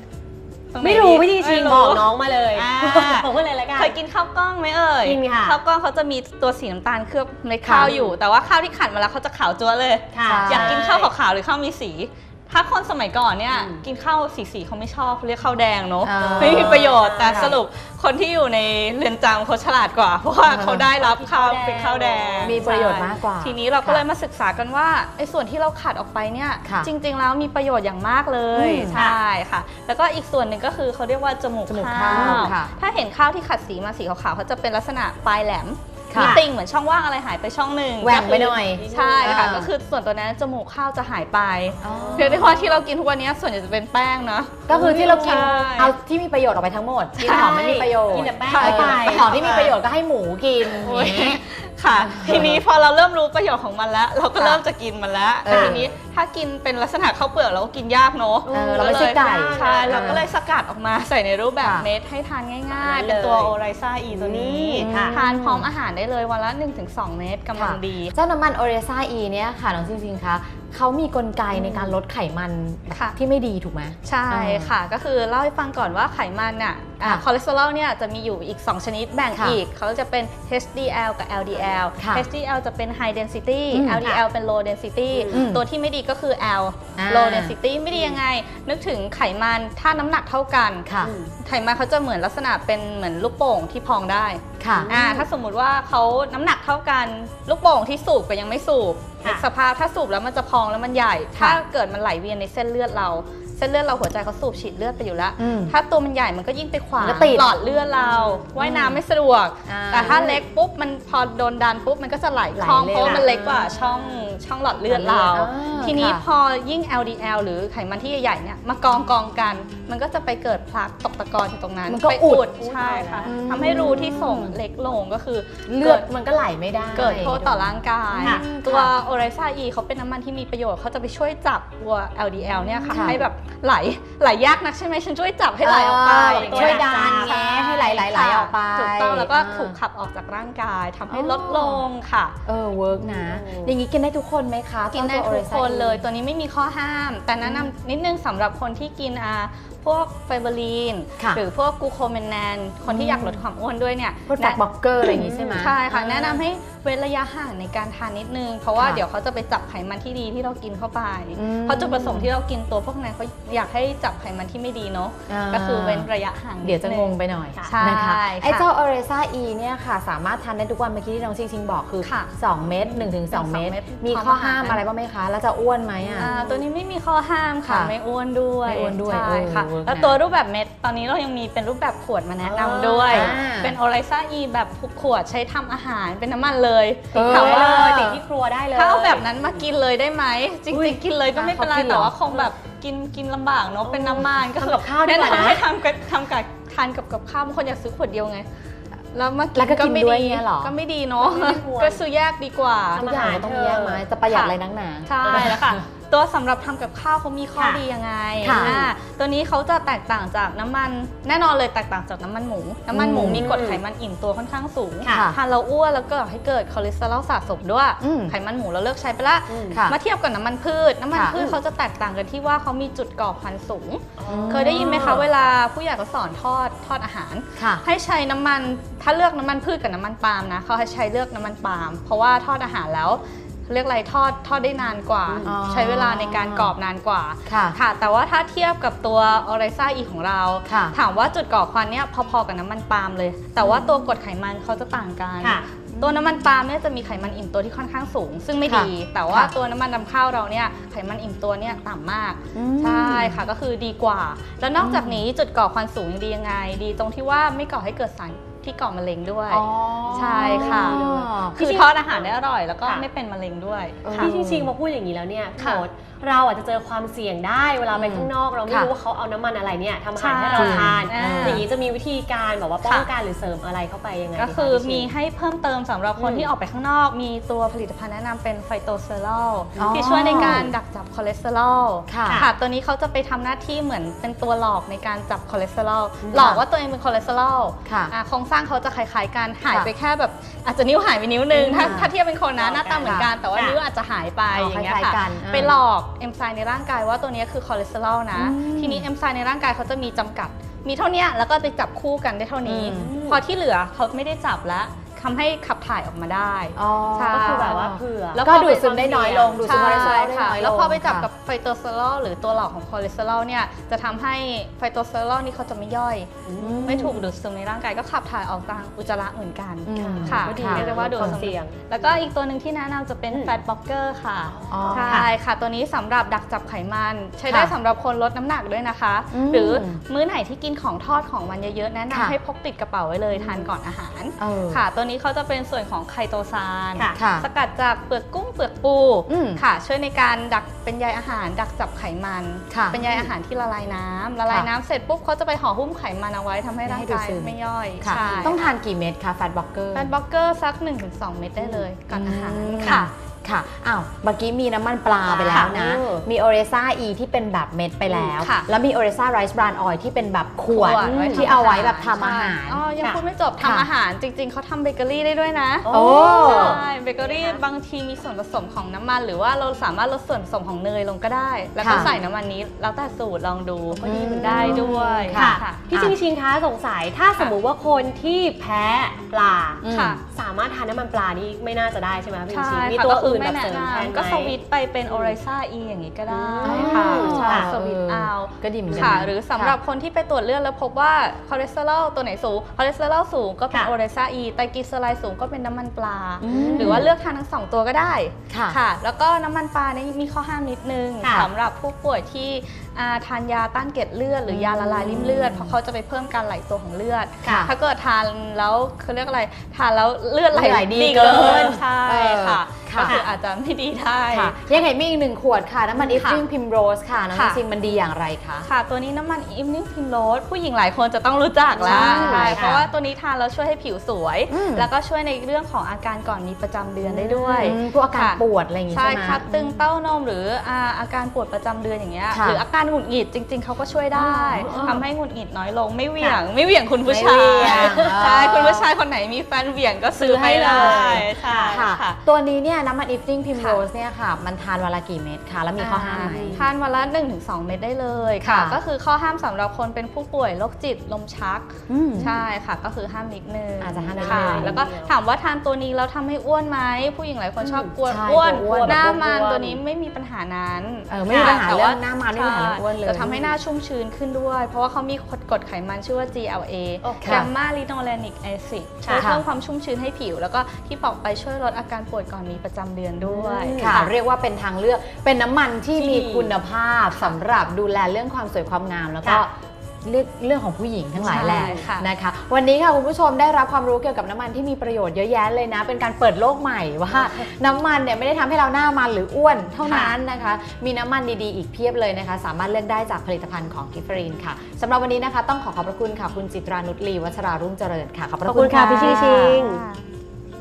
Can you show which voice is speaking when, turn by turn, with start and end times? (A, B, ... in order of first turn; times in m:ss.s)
0:00.7-0:45.9 A
0:00.8-0:04.0 B
0:05.0-0:05.6 B
0:07.6-0:07.9 C
0:07.8-0:08.2 B
0:10.1-0:11.1 B
0:10.2-0:10.8 C
0:13.5-0:13.8 B
0:16.0-0:17.6 C
0:16.2-0:17.5 B
0:20.5-0:20.9 C
0:21.0-0:23.1 B
0:22.4-0:24.0 C
0:26.6-0:26.9 C
0:28.5-0:29.0 C
0:28.9-0:29.2 B
0:31.7-0:32.7 C
0:32.1-0:32.5 B
0:36.1-0:36.4 C
0:36.1-0:36.4 B
0:38.0-0:39.7 C
0:38.2-0:39.5 B
0:41.8-0:42.6 B
0:41.8-0:42.8 C
0:44.7-0:51.4 C
0:44.7-0:45.5 B
0:47.2-0:47.8 A
0:47.2-0:49.6 B
0:48.4-0:49.8 A
0:50.7-1:08.1 A
0:51.9-0:52.6 C
0:54.4-0:54.6 C
0:55.4-0:55.9 C
0:55.5-0:55.8 B
0:58.4-1:00.2 B
0:58.5-1:00.2 C
1:01.6-1:01.9 C
1:02.7-1:03.5 B
1:04.1-1:05.2 B
1:04.8-1:05.7 C
1:07.6-1:14.7 C
1:11.6-1:11.9 B
1:12.9-1:13.2 A
1:14.0-1:30.9 A
1:19.3-1:19.6 C
1:21.6-1:21.8 B
1:22.0-1:22.3 C
1:23.7-1:24.0 C
1:25.1-1:25.4 B
1:25.3-1:25.6 C
1:27.0-1:27.6 C
1:27.9-1:28.2 B
1:30.9-1:31.1 C
1:31.0-1:31.3 B
1:31.4-2:06.1 A
1:34.6-1:34.9 C
1:34.7-1:35.3 B
1:41.4-1:41.6 C
1:45.4-1:45.7 C
1:47.0-1:47.5 C
1:48.2-1:49.0 C
1:49.6-1:50.4 C
1:52.5-1:54.0 C
1:54.9-1:56.2 C
2:01.9-2:02.5 C
2:02.6-2:03.3 B
2:03.2-2:04.6 C
2:05.7-2:08.9 C
2:06.9-2:22.4 A
2:08.2-2:08.4 B
2:12.5-2:13.2 C
2:15.6-2:19.8 C
2:16.1-2:17.4 B
2:21.1-2:21.8 C
2:22.5-2:26.0 C
2:23.0-2:23.8 B
2:24.9-2:48.7 A
2:27.4-2:27.7 C
2:32.9-2:33.4 C
2:34.3-2:36.4 C
2:38.8-2:39.0 C
2:41.4-2:42.3 C
2:45.3-2:46.1 C
2:46.6-2:56.3 C
2:52.0-2:52.3 A
2:53.3-2:54.8 A
2:56.0-2:56.6 B
2:56.2-3:08.1 A
2:57.7-2:57.9 C
2:58.6-3:00.2 C
3:02.4-3:03.4 B
3:03.1-3:03.8 C
3:07.1-3:08.2 C
3:07.1-3:09.6 B
3:08.7-3:18.5 A
3:10.7-3:11.0 B
3:11.3-3:12.2 C
3:13.8-3:15.7 B
3:19.1-3:23.0 A
3:19.6-3:20.7 C
3:21.2-3:22.0 B
3:23.0-3:24.0 B
3:23.0-3:25.8 C
3:24.3-4:24.3 A
3:25.2-3:25.6 B
3:27.6-3:27.8 B
3:28.4-3:28.8 C
3:28.6-3:28.9 B
3:32.9-3:33.5 C
3:33.2-3:33.8 B
3:35.0-3:35.3 B
3:35.1-3:35.4 C
3:38.0-3:38.3 C
3:39.5-3:39.8 B
3:39.7-3:40.0 C
3:44.2-3:45.2 B
3:44.3-3:45.3 C
3:47.6-3:47.8 C
3:55.4-3:56.7 C
3:57.5-3:57.8 C
4:00.7-4:01.0 C
4:05.4-4:05.7 B
4:06.0-4:06.3 C
4:08.7-4:09.5 C
4:12.5-4:13.4 C
4:14.8-4:15.2 C
4:19.5-4:21.8 C
4:20.1-4:22.3 B
4:24.0-4:24.7 C
4:24.2-4:35.1 B
4:25.6-4:25.8 A
4:27.9-4:28.9 C
4:30.2-4:31.7 A
4:30.5-4:31.7 C
4:32.8-4:33.1 A
4:34.4-5:07.8 A
4:36.2-4:36.5 B
4:39.8-4:40.7 B
4:39.8-4:40.7 C
4:42.1-4:42.5 C
4:42.2-4:42.5 B
4:46.2-4:46.6 B
4:46.3-4:46.6 C
4:47.8-4:48.1 C
4:51.5-4:52.0 B
4:51.7-4:52.1 C
4:52.6-4:53.8 B
4:53.0-4:53.3 C
4:54.5-4:55.8 C
4:58.3-4:59.1 C
5:02.6-5:03.2 C
5:02.9-5:03.4 B
5:06.8-5:11.3 C
5:07.3-5:08.4 B
5:08.4-5:16.3 A
5:09.2-5:10.0 B
5:16.4-5:17.2 B
5:16.6-5:17.2 C
5:16.9-5:48.7 A
5:19.8-5:21.4 C
5:20.0-5:22.2 B
5:23.3-5:23.6 B
5:24.7-5:25.3 C
5:24.7-5:25.3 B
5:27.5-5:27.7 C
5:29.3-5:30.0 C
5:32.1-5:32.4 C
5:33.4-5:33.7 C
5:34.4-5:34.8 C
5:37.1-5:37.5 C
5:39.3-5:39.6 C
5:42.7-5:43.3 C
5:46.8-5:50.1 C
5:48.1-5:48.6 B
5:49.9-5:53.1 A
5:51.6-5:51.8 B
5:52.1-6:02.8 C
5:55.2-5:56.3 B
5:58.1-5:58.4 B
5:58.4-5:58.7 A
6:00.7-6:15.8 A
6:01.0-6:01.6 B
6:03.6-6:03.9 C
6:05.8-6:07.6 B
6:05.9-6:06.8 C
6:11.8-6:12.1 C
6:14.0-6:25.4 B
6:14.0-6:16.2 C
6:19.8-6:20.2 C
6:19.9-6:20.2 A
6:22.5-6:54.6 A
6:26.3-6:27.7 B
6:26.6-6:29.8 C
6:28.9-6:29.2 B
6:36.4-6:37.1 C
6:36.4-6:37.1 B
6:38.5-6:38.8 C
6:41.2-6:41.5 B
6:44.5-6:45.8 C
6:47.4-6:47.7 B
6:47.4-6:47.7 C
6:50.5-6:53.2 C
6:51.1-6:51.8 B
6:53.0-6:53.3 B
6:54.3-6:58.7 C
6:56.0-6:56.4 A
6:57.3-6:57.6 A
6:58.6-7:22.2 A
7:01.8-7:02.8 B
7:01.8-7:02.8 C
7:04.5-7:04.9 C
7:07.0-7:09.8 C
7:07.4-7:07.7 B
7:12.3-7:12.6 C
7:14.2-7:15.0 C
7:14.6-7:15.0 B
7:17.1-7:18.9 C
7:17.6-7:18.2 B
7:20.2-7:21.8 B
7:20.3-7:26.7 C
7:23.6-7:23.8 A
7:25.8-7:54.1 A
7:26.2-7:26.6 B
7:28.4-7:28.8 C
7:31.9-7:32.4 C
7:33.8-7:34.8 C
7:34.0-7:35.1 B
7:37.6-7:38.0 B
7:38.1-7:39.2 C
7:38.5-7:39.8 B
7:41.1-7:43.5 C
7:41.3-7:41.6 B
7:47.0-7:47.5 B
7:47.2-7:47.5 C
7:49.0-7:49.3 B
7:49.2-7:49.4 C
7:53.2-7:54.0 B
7:53.8-7:59.5 C
7:55.9-7:56.6 B
8:00.0-8:19.6 C
8:01.2-8:01.8 B
8:01.2-8:02.1 A
8:09.8-8:10.2 B
8:18.4-8:19.8 B
8:18.9-8:20.0 A